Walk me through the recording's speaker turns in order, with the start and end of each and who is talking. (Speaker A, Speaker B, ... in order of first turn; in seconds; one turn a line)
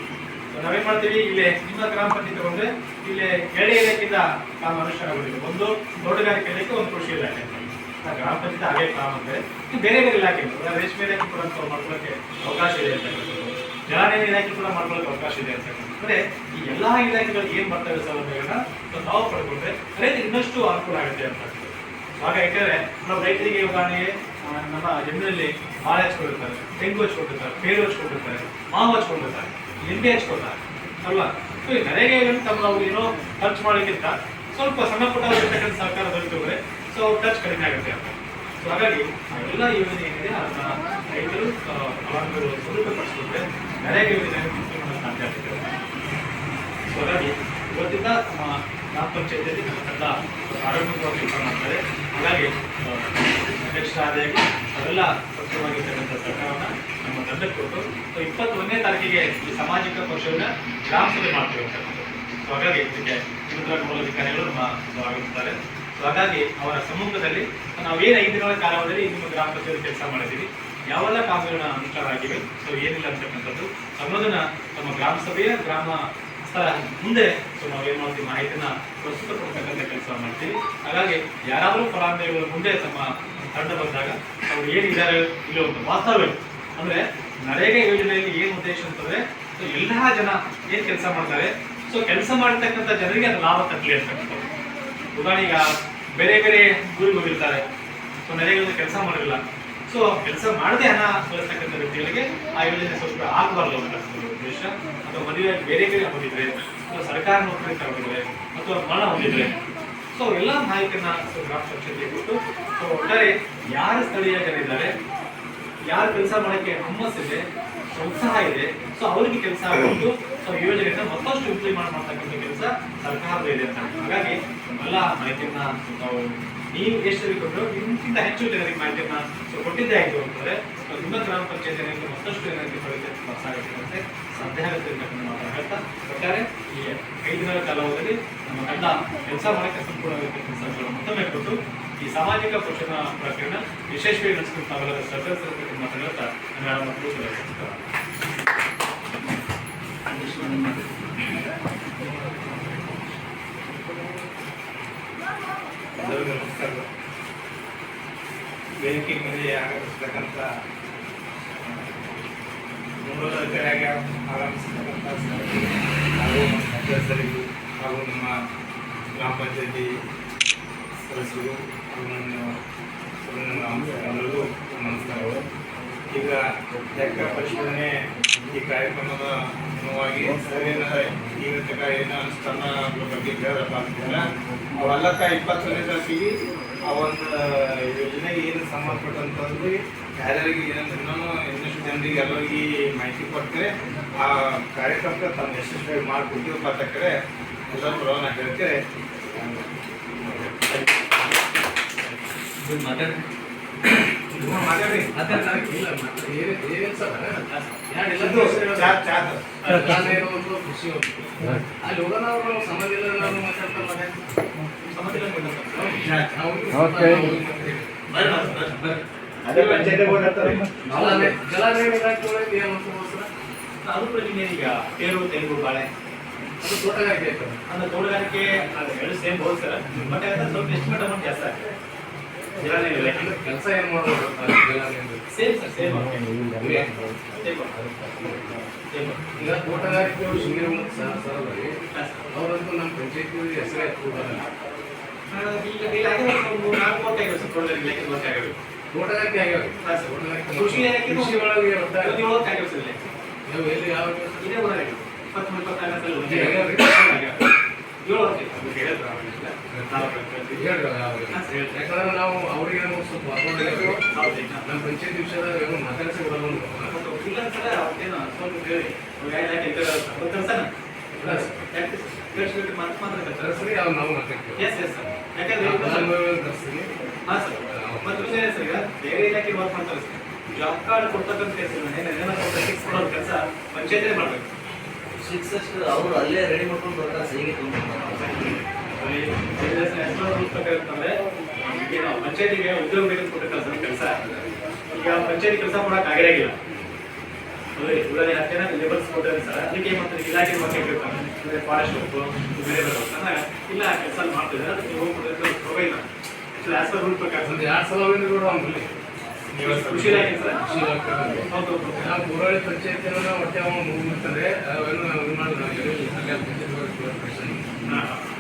Speaker A: 0.5-45.7
Speaker A: 46.9-94.5
Speaker A: 95.1-97.6
Speaker A: 98.2-109.5
Speaker A: 110.1-115.0
Speaker A: 115.9-147.9
Speaker B: 150.1-150.8
Speaker C: 156.0-156.9
Speaker C: 158.8-160.5
Speaker C: 161.6-162.2
Speaker C: 163.0-168.3
Speaker C: 169.1-169.9
Speaker C: 171.1-172.6
Speaker C: 173.2-175.4
Speaker C: 176.1-176.4
Speaker C: 176.9-178.0
Speaker C: 178.5-184.2
Speaker C: 184.8-186.3
Speaker C: 186.9-197.1
Speaker C: 197.7-198.8
Speaker C: 199.3-199.6
Speaker B: 202.6-203.1
Speaker D: 204.3-209.0
Speaker C: 204.4-205.1
Speaker A: 207.5-207.8
Speaker C: 208.1-209.5
Speaker A: 209.6-210.1
Speaker D: 209.7-214.3
Speaker A: 214.8-216.0
Speaker D: 215.7-218.0
Speaker C: 216.0-216.4
Speaker A: 218.1-221.3
Speaker C: 219.5-219.9
Speaker D: 220.8-223.3
Speaker A: 223.8-225.9
Speaker D: 226.6-227.6
Speaker A: 227.7-231.7
Speaker A: 232.6-233.3
Speaker D: 232.6-235.2
Speaker A: 235.3-236.3
Speaker D: 236.6-237.0
Speaker A: 237.2-237.9
Speaker D: 238.1-238.5
Speaker A: 238.9-239.2
Speaker D: 239.4-241.8
Speaker A: 241.9-242.3
Speaker D: 242.3-244.5
Speaker A: 245.3-248.6
Speaker D: 248.9-252.2
Speaker A: 249.8-253.1
Speaker D: 253.5-254.5
Speaker A: 254.4-257.5
Speaker D: 256.2-256.9
Speaker A: 258.0-260.7
Speaker D: 259.7-264.1
Speaker A: 261.3-261.8
Speaker A: 263.6-264.7
Speaker D: 264.6-267.0
Speaker A: 266.9-273.8
Speaker D: 271.1-271.6
Speaker D: 273.4-274.7
Speaker A: 274.6-276.1
Speaker D: 275.6-277.0
Speaker A: 277.3-284.5
Speaker D: 277.7-278.4
Speaker B: 285.1-288.6
Speaker A: 288.9-294.4
Speaker A: 294.9-296.6
Speaker A: 297.8-307.6
Speaker D: 307.4-309.0
Speaker C: 309.5-310.4
Speaker A: 309.6-310.6
Speaker D: 310.6-317.7
Speaker A: 311.4-312.2
Speaker A: 317.9-318.3